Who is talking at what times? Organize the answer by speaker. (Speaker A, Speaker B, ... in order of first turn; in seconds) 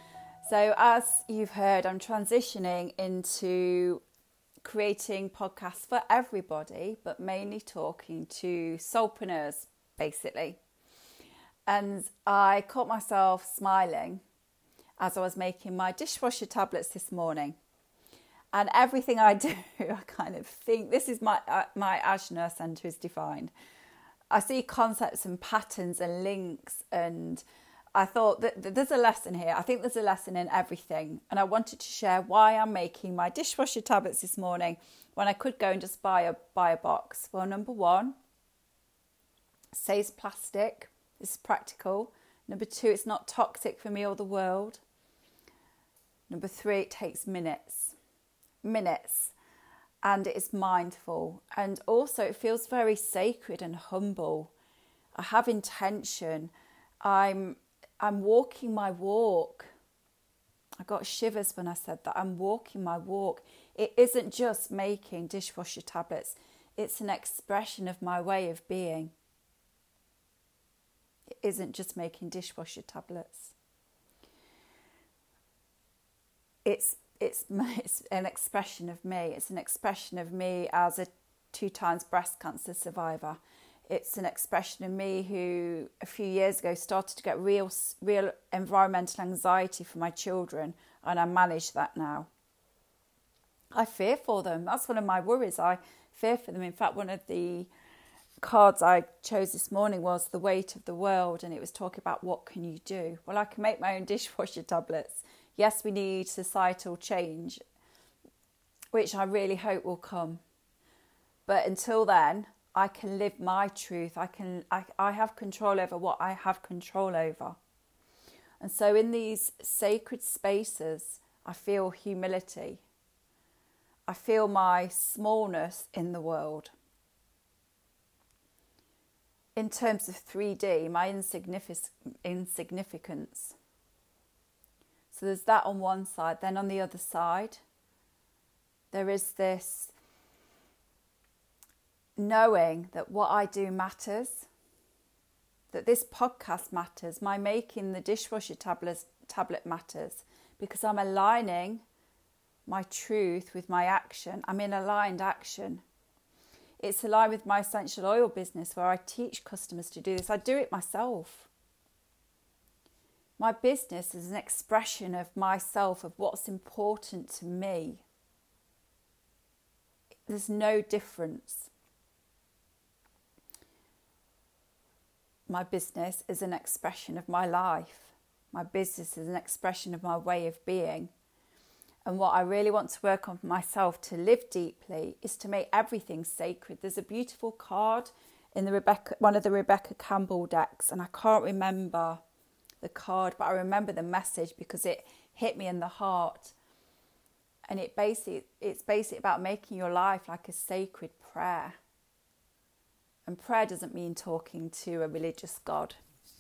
Speaker A: 0.4-4.0, 4.6-10.6, 11.7-14.2, 15.0-17.6, 18.5-23.5, 24.3-27.4, 27.9-38.2, 39.7-44.8, 46.3-48.0, 48.6-49.3, 50.0-54.5, 55.1-56.5, 57.0-59.7, 60.8-69.1, 71.3-73.5, 76.7-92.3, 93.7-97.7, 98.4-107.6, 108.9-110.4, 111.5-117.6, 118.6-122.8, 124.1-126.7, 129.6-133.6, 135.1-137.6, 138.9-139.9, 142.2-144.5, 145.7-151.8, 152.7-155.8, 156.8-161.5, 163.4-168.1, 170.3-171.7, 175.5-181.1, 182.1-192.2, 192.8-196.6, 197.7-201.8, 203.3-206.0